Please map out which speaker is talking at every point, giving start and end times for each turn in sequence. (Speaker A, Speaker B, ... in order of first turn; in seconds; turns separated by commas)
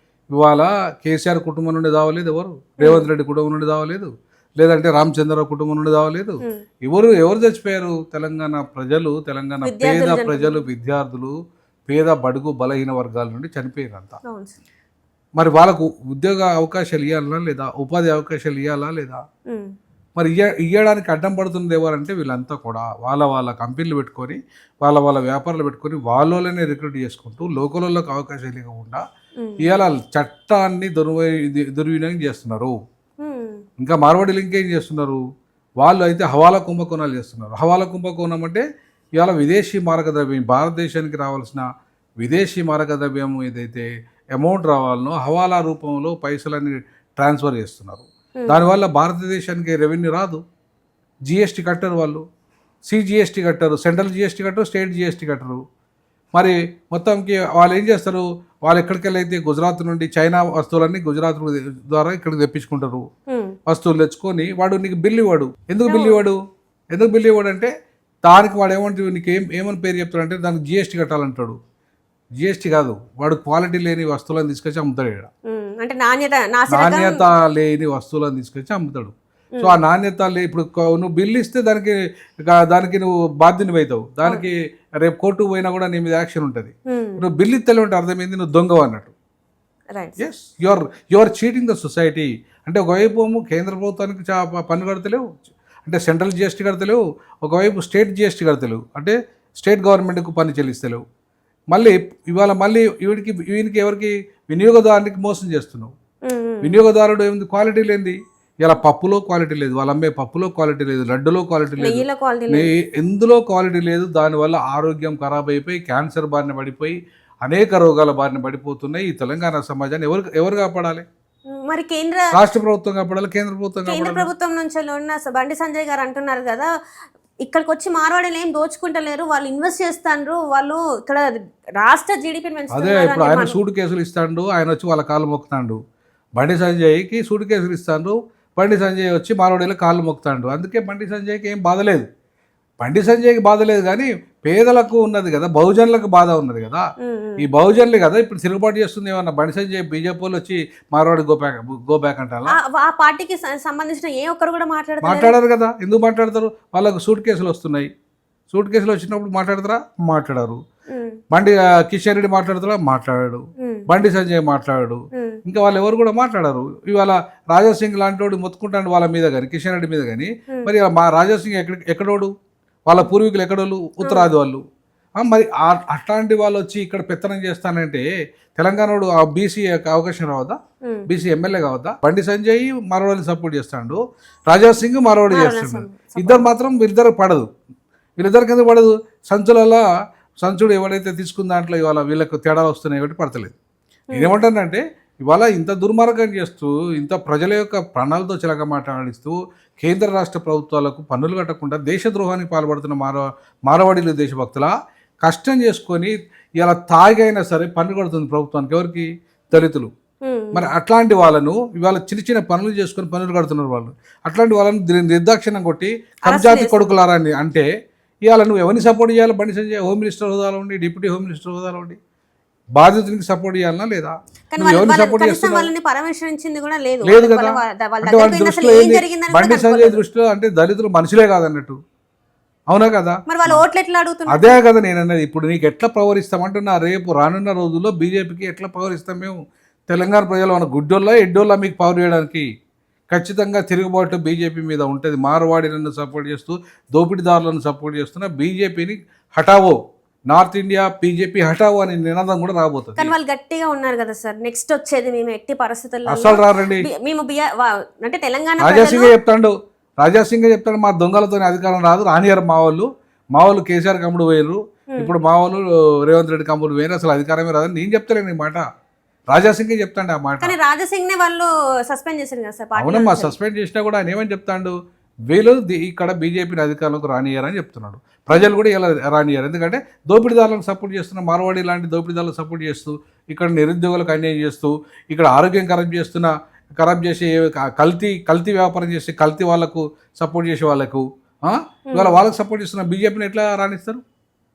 Speaker A: 0.3-11.3, Speaker B: 2.8-3.1, Speaker B: 9.6-10.6, Speaker A: 11.9-14.2, Speaker B: 14.2-14.6, Speaker A: 15.4-19.2, Speaker A: 20.2-29.0, Speaker B: 29.4-29.7, Speaker A: 29.6-32.8, Speaker B: 33.2-33.6, Speaker A: 33.8-35.2, Speaker A: 35.8-38.6, Speaker A: 39.2-41.6, Speaker A: 42.2-50.4, Speaker B: 48.4-48.7, Speaker A: 51.3-52.2, Speaker A: 52.9-55.6, Speaker A: 56.3-63.0, Speaker B: 63.3-63.5, Speaker A: 63.7-66.4, Speaker B: 65.9-66.2, Speaker A: 66.9-67.7, Speaker A: 68.2-71.5, Speaker A: 72.4-75.3, Speaker B: 75.5-77.2, Speaker A: 76.7-89.1, Speaker B: 86.9-87.2, Speaker A: 90.2-101.0, Speaker A: 101.7-105.9, Speaker B: 106.2-106.8, Speaker A: 106.6-121.0, Speaker B: 111.8-112.7, Speaker B: 121.5-122.2, Speaker A: 122.3-124.3, Speaker B: 123.8-126.7, Speaker B: 127.4-133.6, Speaker A: 132.7-135.8, Speaker A: 136.4-142.0, Speaker A: 142.8-146.8, Speaker B: 147.0-147.5, Speaker A: 147.4-152.6, Speaker B: 152.5-155.3, Speaker A: 155.0-157.9, Speaker A: 158.5-160.6, Speaker B: 160.9-161.2, Speaker A: 161.3-172.3, Speaker B: 163.6-163.8, Speaker B: 165.1-165.4, Speaker A: 172.8-174.6, Speaker B: 174.0-174.3, Speaker A: 175.2-180.6, Speaker A: 181.1-187.5, Speaker B: 185.3-186.5, Speaker A: 188.2-189.8, Speaker A: 190.4-193.6, Speaker A: 194.1-204.7, Speaker A: 205.2-209.9, Speaker B: 210.2-210.7, Speaker A: 210.5-217.7, Speaker B: 216.2-216.9, Speaker A: 218.2-222.0, Speaker A: 222.8-225.7, Speaker B: 224.5-230.0, Speaker A: 227.0-231.8, Speaker A: 232.7-233.6, Speaker B: 233.3-234.6, Speaker A: 234.3-239.4, Speaker A: 239.9-242.4, Speaker A: 243.1-249.8, Speaker A: 250.3-253.1, Speaker B: 253.0-259.1, Speaker A: 256.1-256.9, Speaker A: 258.6-268.6, Speaker A: 269.3-270.6, Speaker B: 270.4-273.3, Speaker A: 272.8-274.7, Speaker A: 275.3-294.0, Speaker B: 291.9-292.2